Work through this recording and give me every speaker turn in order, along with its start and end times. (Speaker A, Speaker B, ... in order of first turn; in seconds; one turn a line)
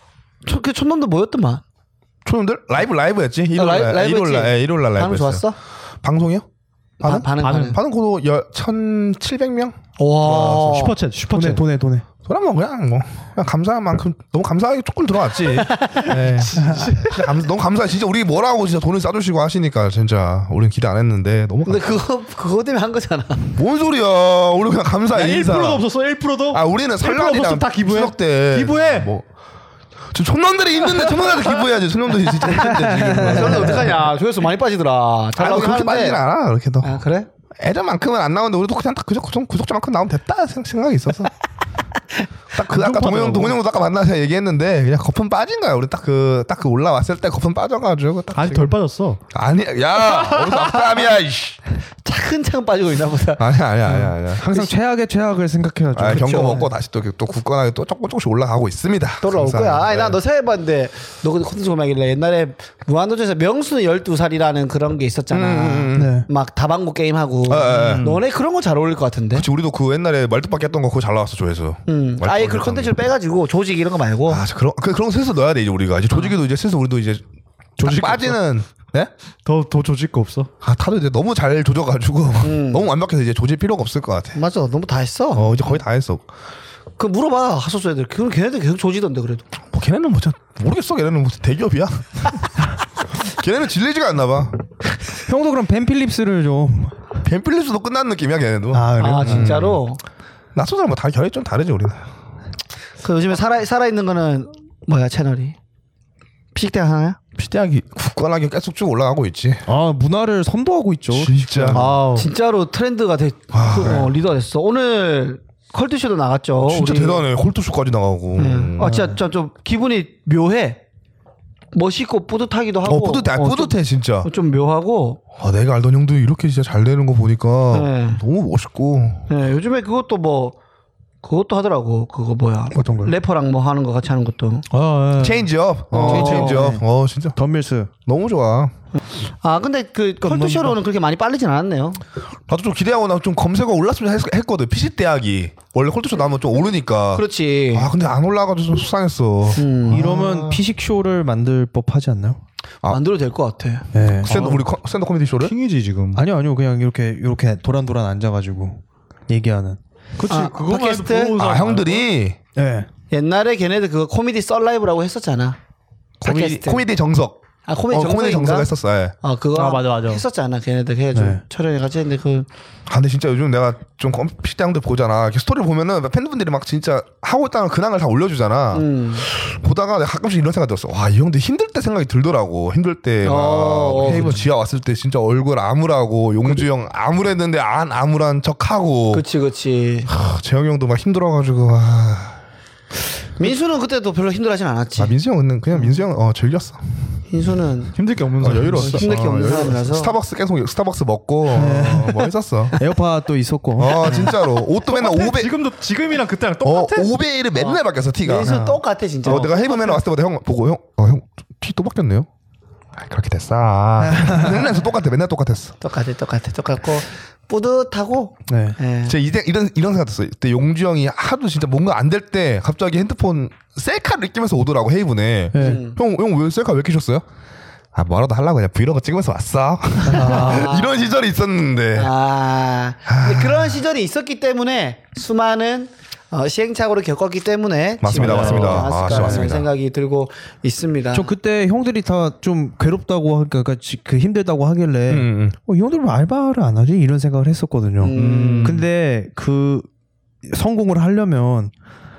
Speaker A: 0.4-1.6
Speaker B: 2.2-5.4
Speaker A: 3.5-5.5
Speaker B: 6.0-6.4
Speaker B: 7.0-10.8
Speaker A: 7.0-7.8
Speaker C: 7.4-7.8
Speaker A: 10.0-11.0
Speaker C: 10.3-11.6
Speaker D: 11.3-12.0
Speaker B: 12.2-22.0
Speaker A: 15.5-16.8
Speaker C: 16.1-17.2
Speaker D: 16.6-16.9
Speaker A: 21.6-23.5
Speaker B: 23.5-25.8
Speaker C: 25.1-29.1
Speaker B: 26.5-29.2
Speaker B: 30.1-33.9
Speaker C: 31.2-31.5
Speaker D: 32.7-33.6
Speaker A: 33.2-36.2
Speaker B: 35.4-37.0
Speaker A: 36.8-37.3
Speaker B: 37.6-41.3
Speaker B: 42.5-48.8
Speaker C: 42.7-43.6
Speaker C: 48.3-49.2
Speaker B: 49.3-51.6
Speaker C: 50.2-50.9
Speaker A: 52.0-54.1
Speaker B: 53.4-54.7
Speaker D: 54.4-56.7
Speaker B: 55.9-60.2
Speaker A: 56.2-56.6
Speaker A: 59.2-69.5
Speaker B: 65.3-66.2
Speaker D: 65.9-66.3
Speaker B: 67.5-68.1
Speaker C: 67.7-68.2
Speaker B: 69.3-72.9
Speaker A: 71.9-74.4
Speaker B: 74.3-77.2
Speaker B: 77.8-79.1
Speaker D: 77.8-78.3
Speaker C: 79.4-80.5
Speaker B: 80.6-84.4
Speaker A: 82.4-82.9
Speaker A: 84.3-85.6
Speaker B: 85.3-86.2
Speaker A: 87.0-89.4
Speaker B: 89.7-92.5
Speaker B: 93.1-94.5
Speaker D: 95.2-97.1
Speaker B: 97.2-99.8
Speaker D: 98.7-99.6
Speaker A: 99.0-100.0
Speaker B: 100.5-102.1
Speaker A: 103.0-105.5
Speaker A: 106.5-107.2
Speaker B: 107.3-109.7
Speaker D: 109.7-111.8
Speaker B: 111.1-111.8
Speaker C: 111.7-112.3
Speaker A: 111.7-117.2
Speaker B: 113.5-114.1
Speaker B: 116.6-119.0
Speaker A: 118.4-120.8
Speaker D: 118.8-119.2
Speaker A: 121.7-125.2
Speaker B: 122.8-124.3
Speaker B: 125.3-129.3
Speaker A: 127.7-128.2
Speaker A: 129.3-130.6
Speaker A: 131.2-134.7
Speaker D: 132.7-133.1
Speaker C: 134.7-135.5
Speaker B: 135.2-137.4
Speaker D: 135.9-136.8
Speaker A: 135.9-136.7
Speaker D: 137.3-137.9
Speaker B: 138.1-138.7
Speaker A: 139.4-142.0
Speaker D: 140.2-140.8
Speaker B: 142.5-150.6
Speaker A: 147.1-147.9
Speaker A: 149.5-150.1
Speaker D: 149.9-152.4
Speaker A: 152.8-153.8
Speaker D: 153.9-154.5
Speaker C: 154.2-154.6
Speaker B: 154.2-155.5
Speaker C: 155.4-156.2
Speaker D: 156.1-159.8
Speaker C: 160.2-162.1
Speaker A: 160.3-161.4
Speaker B: 161.4-162.4
Speaker D: 162.5-162.9
Speaker A: 163.1-165.6
Speaker B: 166.2-169.1
Speaker A: 166.2-166.8
Speaker A: 167.7-172.5
Speaker C: 169.5-170.2
Speaker D: 171.1-171.4
Speaker B: 172.9-189.2
Speaker A: 178.7-179.3
Speaker A: 183.2-184.3
Speaker D: 184.0-184.5
Speaker A: 189.1-190.1
Speaker B: 190.1-192.4
Speaker A: 193.4-195.1
Speaker B: 195.0-196.8
Speaker A: 197.3-197.9
Speaker C: 197.9-199.7
Speaker B: 198.4-202.8
Speaker D: 198.5-198.8
Speaker A: 198.8-200.1
Speaker D: 201.5-204.4
Speaker B: 203.8-205.5
Speaker C: 204.1-207.2
Speaker B: 206.6-208.6
Speaker A: 207.6-209.6
Speaker D: 208.4-208.8
Speaker B: 209.2-212.3
Speaker B: 212.9-215.8
Speaker D: 214.0-214.6
Speaker A: 215.8-219.1
Speaker D: 218.5-218.8
Speaker B: 219.1-227.2
Speaker D: 225.5-225.8
Speaker A: 225.6-226.0
Speaker B: 227.9-232.1
Speaker D: 230.0-230.7
Speaker A: 230.1-231.0
Speaker A: 231.9-241.3
Speaker B: 233.1-233.8
Speaker B: 238.0-239.7
Speaker C: 238.1-238.9
Speaker D: 241.1-249.9
Speaker B: 245.1-245.5
Speaker A: 248.0-248.8
Speaker C: 248.1-248.8
Speaker D: 250.4-251.7